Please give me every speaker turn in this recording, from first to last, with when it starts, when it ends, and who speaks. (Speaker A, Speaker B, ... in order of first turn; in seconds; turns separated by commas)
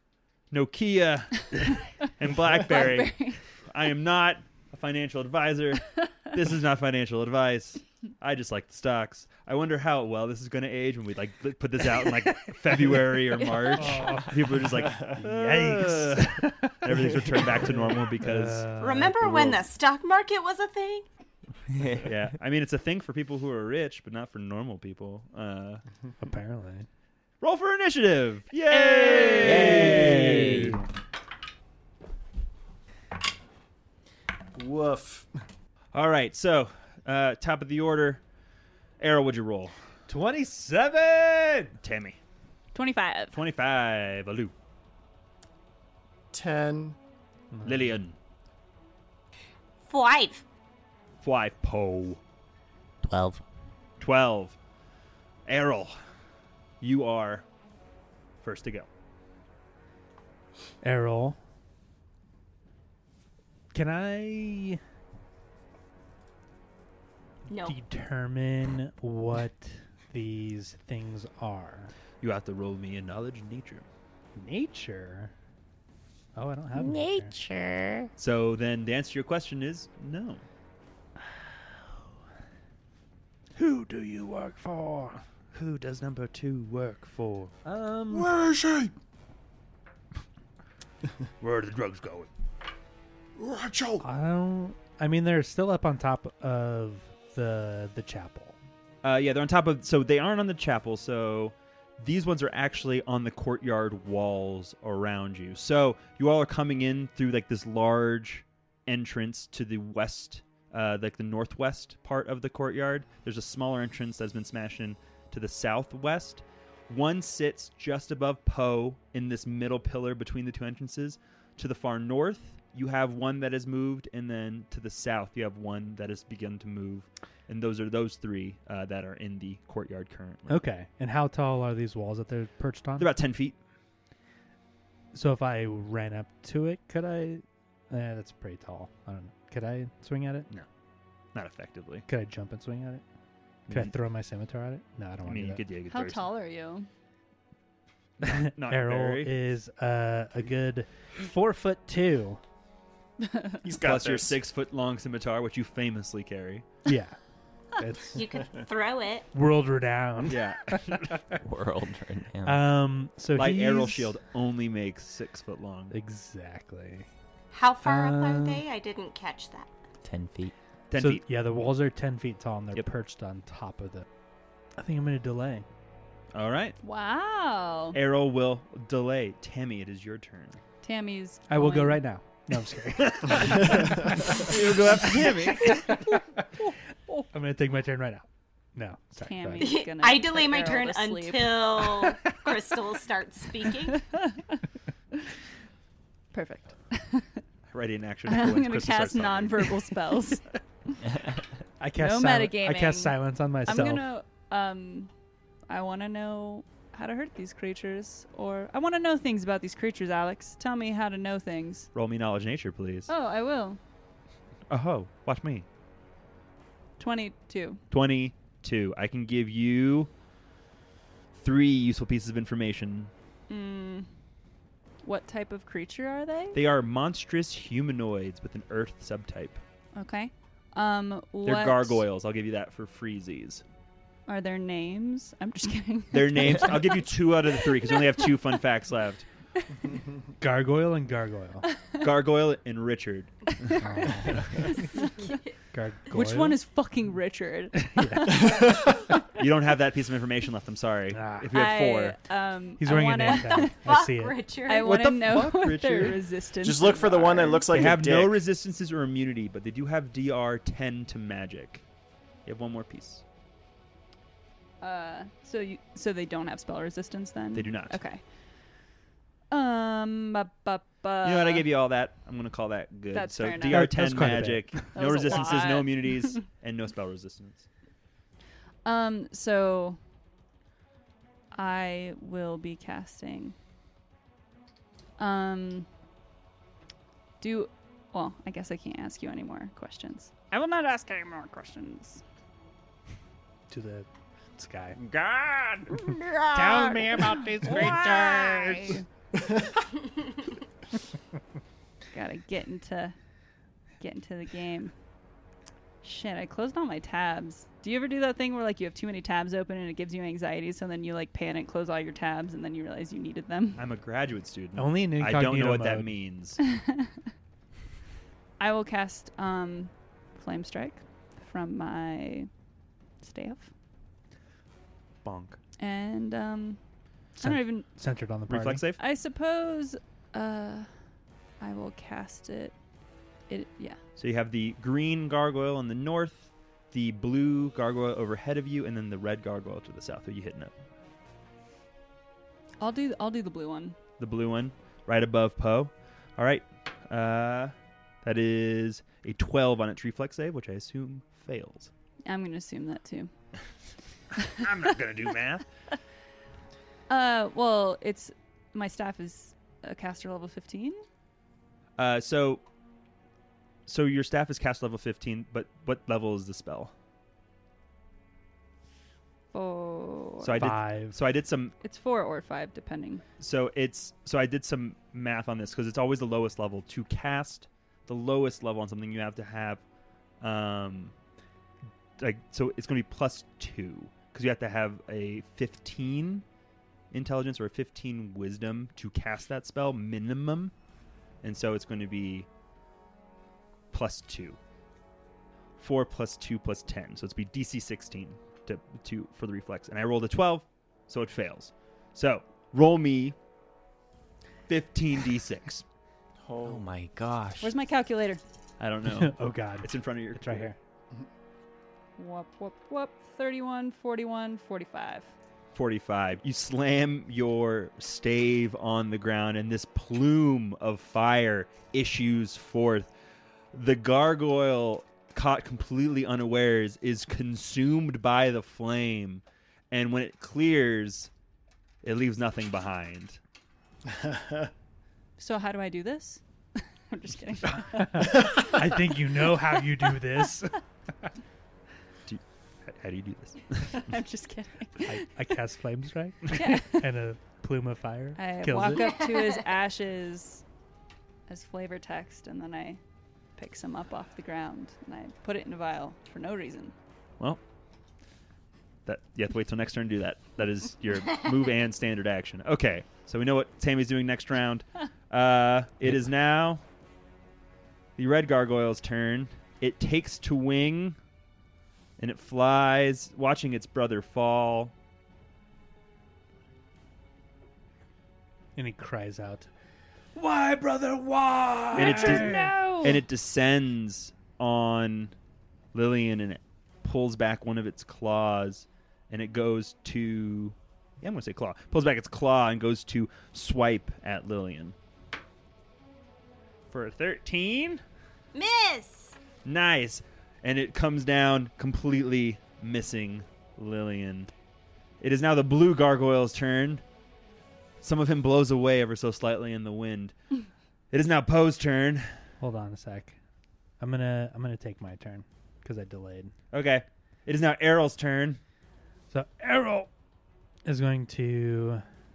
Speaker A: 0.5-18.7, Speaker B: 2.6-3.4, Speaker B: 13.4-14.2, Speaker C: 13.8-14.5, Speaker C: 15.2-19.2, Speaker D: 18.8-21.1, Speaker E: 21.7-22.1, Speaker A: 22.0-25.8, Speaker C: 26.2-26.9, Speaker A: 27.4-30.8, Speaker C: 28.7-30.8, Speaker E: 29.4-30.8, Speaker F: 34.5-35.3, Speaker A: 35.9-38.2, Speaker A: 39.0-39.7, Speaker C: 40.1-41.7, Speaker A: 41.8-42.2, Speaker B: 42.7-43.4, Speaker A: 43.3-44.5, Speaker F: 46.3-47.0, Speaker C: 47.5-48.0, Speaker A: 47.6-48.2, Speaker D: 49.8-50.4, Speaker A: 51.2-52.2, Speaker E: 53.0-53.4, Speaker A: 54.0-54.6, Speaker A: 55.5-56.0, Speaker A: 56.8-57.4, Speaker A: 58.4-58.9, Speaker C: 60.8-61.4, Speaker C: 63.7-64.8, Speaker D: 67.5-67.8, Speaker C: 67.5-71.9, Speaker A: 72.2-73.8, Speaker C: 74.3-75.3, Speaker C: 76.3-77.3, Speaker E: 76.8-78.1, Speaker A: 78.2-80.4, Speaker C: 83.5-85.2, Speaker A: 85.5-87.5, Speaker C: 87.6-88.3, Speaker F: 88.1-88.9, Speaker A: 91.4-92.3, Speaker F: 93.4-94.0, Speaker C: 94.0-98.5, Speaker A: 99.0-130.6, Speaker C: 130.5-133.1, Speaker A: 133.0-133.6, Speaker C: 135.1-140.5, Speaker A: 141.3-142.1, Speaker C: 142.1-143.0, Speaker A: 143.7-143.9, Speaker C: 143.7-145.6, Speaker A: 145.2-146.2, Speaker B: 145.9-146.9, Speaker A: 148.2-149.4, Speaker C: 148.2-152.4, Speaker F: 153.6-154.4, Speaker A: 153.7-156.6, Speaker C: 156.8-157.2, Speaker C: 157.8-158.3, Speaker D: 158.1-159.3, Speaker C: 159.3-161.2, Speaker A: 160.2-161.2, Speaker E: 161.4-162.7, Speaker C: 162.4-164.1, Speaker A: 163.3-165.9, Speaker C: 165.9-167.1, Speaker D: 167.5-169.7, Speaker C: 167.8-168.6, Speaker E: 170.0-170.5, Speaker A: 170.9-171.2, Speaker C: 170.9-174.1, Speaker C: 174.8-175.7, Speaker A: 176.3-176.8, Speaker B: 176.8-178.0, Speaker A: 177.9-180.6, Speaker B: 180.8-182.0, Speaker C: 181.5-186.4, Speaker A: 183.0-186.0, Speaker C: 187.3-189.8, Speaker B: 189.2-192.0, Speaker D: 189.6-194.0, Speaker B: 193.8-194.6, Speaker B: 196.3-197.4, Speaker A: 197.7-199.8, Speaker B: 198.3-200.5, Speaker C: 201.8-204.1, Speaker B: 202.0-205.1, Speaker B: 205.7-211.9, Speaker A: 211.9-213.1, Speaker B: 213.1-213.8, Speaker A: 214.7-215.7, Speaker B: 217.0-217.8, Speaker A: 217.9-220.1, Speaker A: 221.3-223.1, Speaker B: 223.5-224.1, Speaker B: 225.0-226.6, Speaker A: 226.5-229.6, Speaker B: 229.9-232.0, Speaker A: 231.4-233.6, Speaker B: 234.3-238.3, Speaker A: 236.1-239.3, Speaker C: 240.4-241.7, Speaker A: 242.0-243.8, Speaker C: 243.8-244.8, Speaker B: 244.2-245.3, Speaker D: 244.9-245.5, Speaker C: 245.7-246.6, Speaker B: 246.1-248.8, Speaker C: 247.8-248.6, Speaker F: 248.3-248.9, Speaker A: 249.4-252.2, Speaker C: 251.1-251.5, Speaker B: 251.5-253.9, Speaker C: 252.8-254.4, Speaker D: 253.2-255.1, Speaker B: 254.6-257.7, Speaker A: 254.8-256.2, Speaker F: 256.6-258.4, Speaker A: 257.7-261.8, Speaker A: 262.4-263.2, Speaker B: 264.8-268.2, Speaker A: 267.5-268.0, Speaker B: 269.5-271.7, Speaker A: 271.2-277.7, Speaker B: 273.1-276.4, Speaker C: 273.6-274.9, Speaker B: 278.8-280.0, Speaker B: 281.5-283.6, Speaker B: 285.2-285.9, Speaker B: 287.4-292.2, Speaker C: 293.7-295.0, Speaker A: 295.0-298.0, Speaker C: 296.5-299.0, Speaker B: 297.6-299.0, Speaker B: 302.1-303.1, Speaker B: 304.0-304.9, Speaker B: 306.0-313.8, Speaker A: 313.8-316.6, Speaker C: 314.8-316.1, Speaker B: 318.6-322.5, Speaker B: 323.2-323.7, Speaker A: 325.2-325.6, Speaker B: 325.8-326.8, Speaker B: 327.4-327.9, Speaker C: 327.4-328.9, Speaker A: 328.5-329.0, Speaker B: 328.9-330.9, Speaker B: 331.6-332.7, Speaker B: 333.5-334.0, Speaker A: 334.2-340.7, Speaker B: 342.8-343.9, Speaker A: 344.2-351.9, Speaker B: 352.2-353.3, Speaker A: 354.5-355.6, Speaker B: 357.1-361.0, Speaker A: 362.0-362.6, Speaker A: 363.9-366.9, Speaker B: 369.5-370.7, Speaker A: 370.4-371.7, Speaker C: 370.6-371.2, Speaker B: 371.8-373.2, Speaker A: 373.4-379.8, Speaker A: 380.4-381.1, Speaker A: 382.2-386.4, Speaker A: 387.1-390.7, Speaker A: 391.4-392.5, Speaker A: 393.9-394.6, Speaker A: 395.8-403.4, Speaker A: 404.7-405.8, Speaker F: 406.4-406.8, Speaker E: 406.6-407.8, Speaker B: 407.6-408.4, Speaker A: 408.8-410.7, Speaker C: 409.1-410.8, Speaker B: 412.2-415.3, Speaker A: 415.7-423.1, Speaker A: 423.7-431.3, Speaker A: 432.0-433.4, Speaker F: 434.1-434.7, Speaker B: 435.4-438.7, Speaker C: 438.0-440.8, Speaker A: 442.2-444.1, Speaker B: 443.9-445.2, Speaker C: 445.0-449.0, Speaker B: 446.5-447.1, Speaker B: 448.4-450.6, Speaker D: 449.0-449.4, Speaker B: 451.5-453.0, Speaker B: 453.5-456.9, Speaker A: 459.1-466.8, Speaker A: 468.1-471.2, Speaker A: 472.2-474.9, Speaker C: 478.8-479.7, Speaker C: 480.3-482.7, Speaker B: 481.9-483.2, Speaker A: 481.9-485.3, Speaker A: 485.9-494.9, Speaker A: 496.9-498.0, Speaker D: 498.5-499.4, Speaker A: 499.6-504.5, Speaker A: 505.2-507.0, Speaker A: 508.0-510.3, Speaker A: 511.1-512.3, Speaker C: 512.6-513.4, Speaker C: 514.0-516.5, Speaker A: 516.7-518.6, Speaker C: 519.3-520.1, Speaker C: 520.8-522.0